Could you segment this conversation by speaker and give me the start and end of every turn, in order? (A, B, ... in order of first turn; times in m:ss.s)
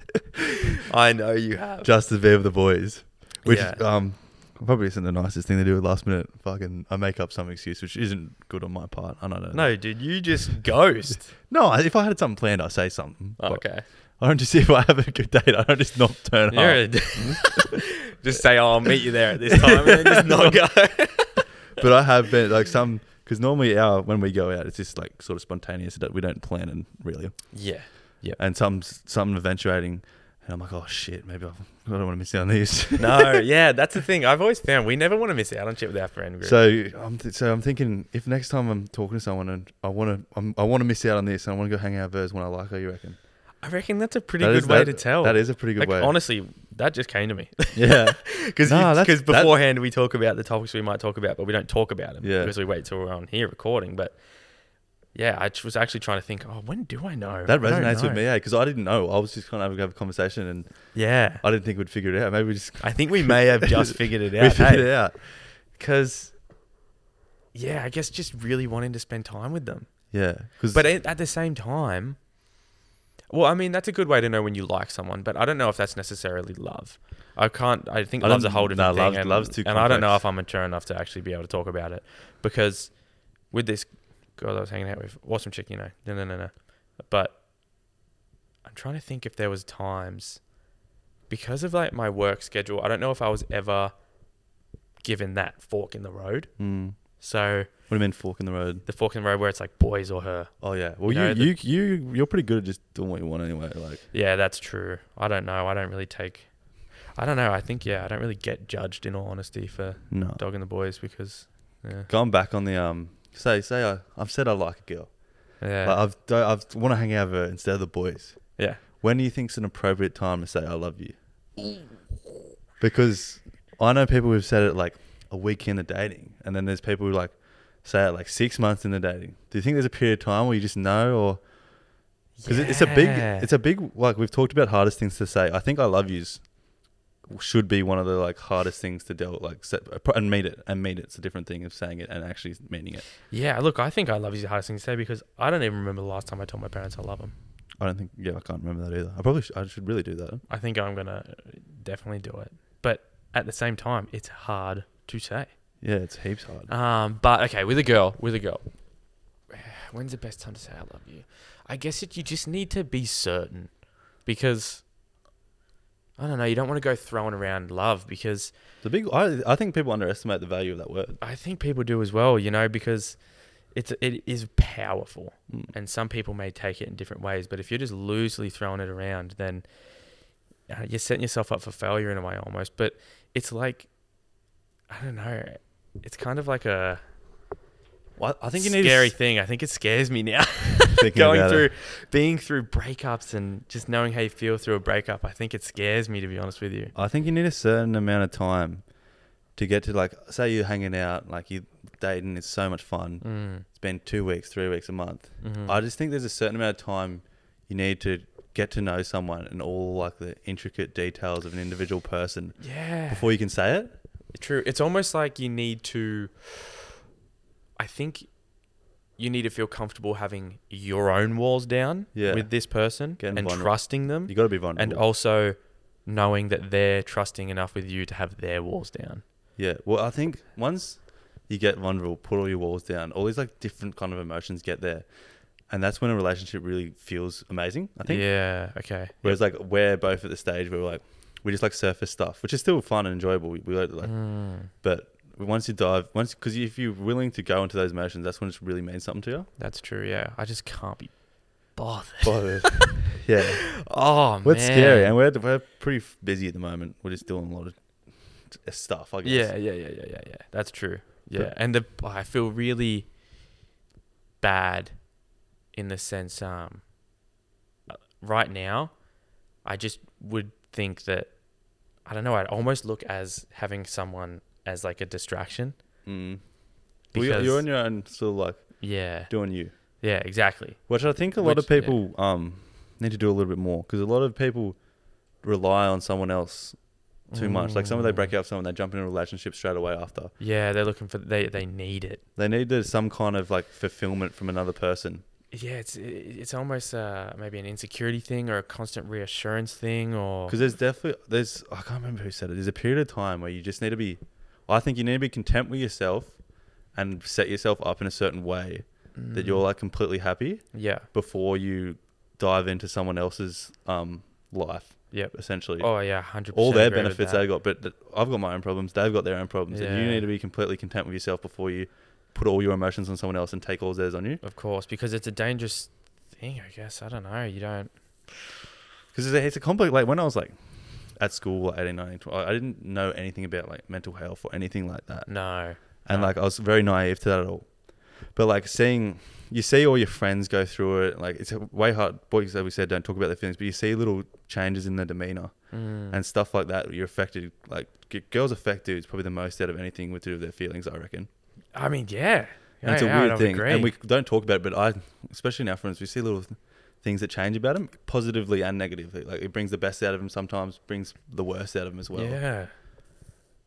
0:00.8-0:01.9 A
0:01.8-0:09.8 B
0:03.4-0:03.8 A
0:09.5-0:11.3 A
0:11.5-0:17.8 B
0:13.4-0:13.8 A
0:16.5-0:21.5 A
0:19.7-0:20.5 B
0:21.8-0:27.6 B
0:27.5-0:28.4 A
0:28.3-0:33.4 B
0:33.0-0:36.6 A
0:36.4-0:43.2 B
0:43.6-0:54.2 A
0:44.4-0:46.2 B
0:47.7-0:49.5 B
0:52.2-0:52.5 B
0:55.1-0:58.2 A
0:57.4-1:05.2 B
1:00.9-1:01.4 A
1:02.8-1:06.4 A
1:07.5-1:12.2 A
1:10.1-1:10.9 B
1:13.3-1:27.4 A
1:18.2-1:20.2 B
1:28.6-1:30.4 A
1:31.3-1:33.9 A
1:35.0-1:37.7 A
1:36.6-1:37.0 B
1:37.9-1:38.8 B
1:38.8-1:41.5 A
1:40.6-1:44.0 B
1:44.1-1:52.1 A
1:50.1-1:50.4 B
1:52.1-2:01.2 B
1:55.6-1:56.0 A
1:58.6-1:58.8 A
2:02.8-2:11.5 B
2:12.4-2:13.5 A
2:12.4-2:16.5 B
2:17.2-2:23.0 B
2:23.3-2:27.3 A
2:27.8-2:30.4 B
2:30.5-2:35.5 A
2:35.8-2:36.7 B
2:36.7-2:44.8 A
2:46.2-2:48.5 A
2:48.8-2:51.2 B
2:51.2-2:59.6 A
2:55.5-2:55.7 B
3:00.7-3:03.9 A
3:04.9-3:07.0 A
3:08.2-3:09.1 B
3:08.6-3:16.9 A
3:10.9-3:11.7 B
3:16.9-3:18.9 B
3:19.5-3:34.0 B
3:23.2-3:23.6 A
3:25.4-3:25.8 A
3:32.6-3:33.3 A
3:34.3-3:37.0 A
3:37.8-3:38.3 A
3:39.2-3:49.2 A
3:42.1-3:45.0 B
3:49.6-4:09.5 B
3:58.0-3:59.4 A
4:04.0-4:04.7 A
4:09.6-4:12.9 A
4:12.2-4:13.8 B
4:13.7-4:15.1 A
4:14.4-4:19.5 B
4:19.2-4:23.1 A
4:24.4-4:25.1 A
4:25.7-4:26.8 A
4:27.9-4:29.0 A
4:29.6-4:31.4 A
4:32.0-4:35.8 A
4:36.0-4:39.7 B
4:37.1-4:37.7 A
4:38.8-4:42.0 A
4:40.9-4:44.8 B
4:45.4-4:50.3 B
4:47.3-4:48.3 A
4:50.4-4:52.2 A
4:52.4-4:55.2 B
4:55.5-5:00.6 A
5:00.5-5:24.4 B
5:09.1-5:09.6 A
5:10.7-5:11.1 A
5:15.1-5:17.4 A
5:19.7-5:20.3 A
5:24.4-5:28.5 A
5:29.1-5:51.3 B
5:35.3-5:36.3 A
5:45.7-5:46.2 A
5:51.7-5:53.9 A
5:52.8-6:02.4 B
6:02.1-6:02.7 A